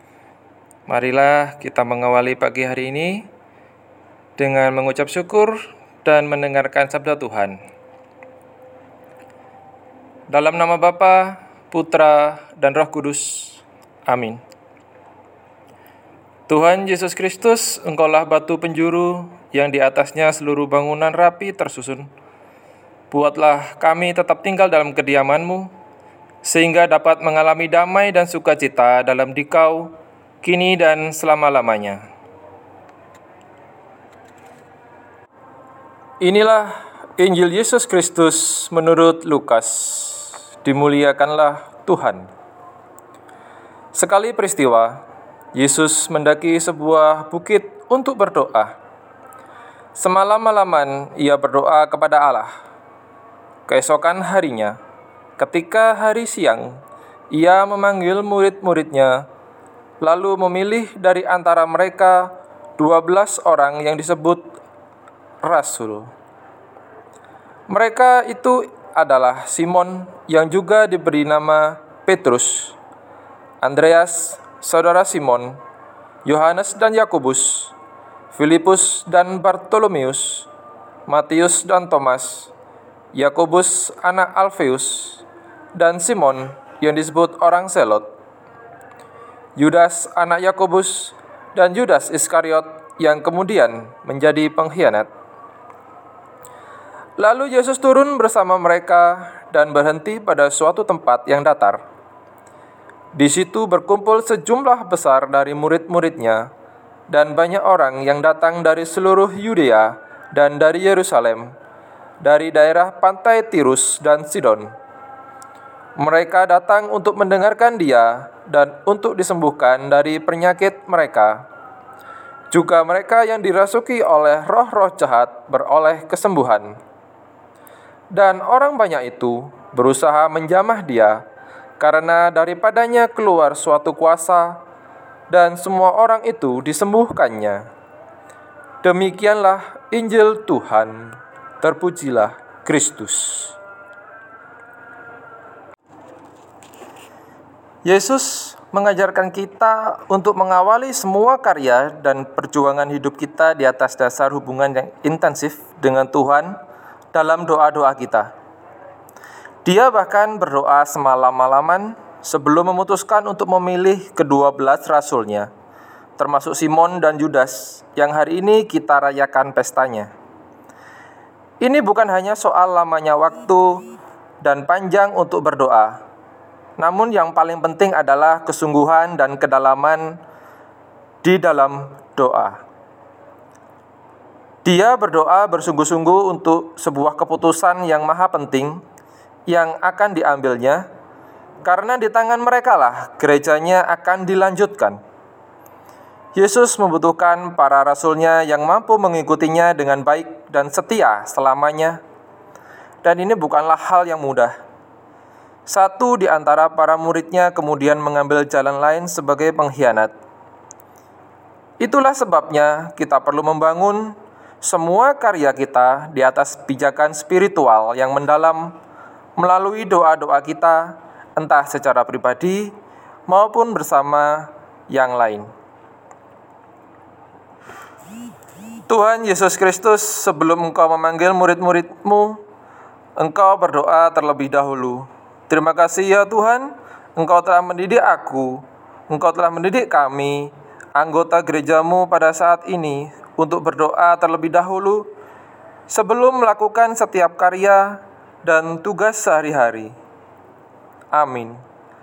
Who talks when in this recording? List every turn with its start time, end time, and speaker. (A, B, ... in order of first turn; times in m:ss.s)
0:00.9-0:03.3 A
0:04.4-0:07.6 A
0:10.3-0:14.4 A
0:16.5-0:22.1 A
0:23.1-0:25.7 A
0:26.4-0:32.0 A
0:36.2-0:42.3 A
0:43.9-0:45.0 A
0:45.5-0:48.7 A
0:50.0-0:52.5 A
0:53.7-0:54.8 A
0:55.4-0:56.8 A
0:57.3-0:59.2 A
1:00.0-1:04.6 A
1:05.4-1:06.1 A
1:07.7-1:12.7 A
1:13.6-1:15.6 A
1:16.2-1:17.7 A
1:18.3-1:20.5 A
1:21.1-1:22.5 A
1:23.1-1:25.2 A
1:25.7-1:28.1 A
1:29.6-1:35.1 A
1:37.2-1:41.8 A
1:43.1-1:46.5 A
1:47.1-1:51.5 A
1:52.2-1:54.7 A
1:56.0-2:01.4 A
2:02.5-2:06.8 A
2:08.1-2:11.2 A
2:11.8-2:14.6 A
2:15.3-2:17.7 A
2:18.8-2:23.6 A
2:27.8-2:36.6 A
2:37.1-2:38.3 A
2:39.6-2:45.5 A
2:46.2-2:50.1 A
2:51.6-2:53.8 A
2:54.4-2:56.0 A
2:56.8-3:00.2 A
3:01.2-3:02.6 A
3:04.6-3:08.8 A
3:09.5-3:10.8 A
3:11.6-3:15.0 A
3:16.3-3:22.0 A
3:23.0-3:24.5 A
3:25.7-3:30.1 A
3:31.8-3:38.7 A
3:39.4-3:42.7 A
3:43.3-3:45.5 A
3:48.9-3:52.4 A
3:53.2-4:05.0 A
4:05.9-4:09.9 A
4:11.1-4:11.6 A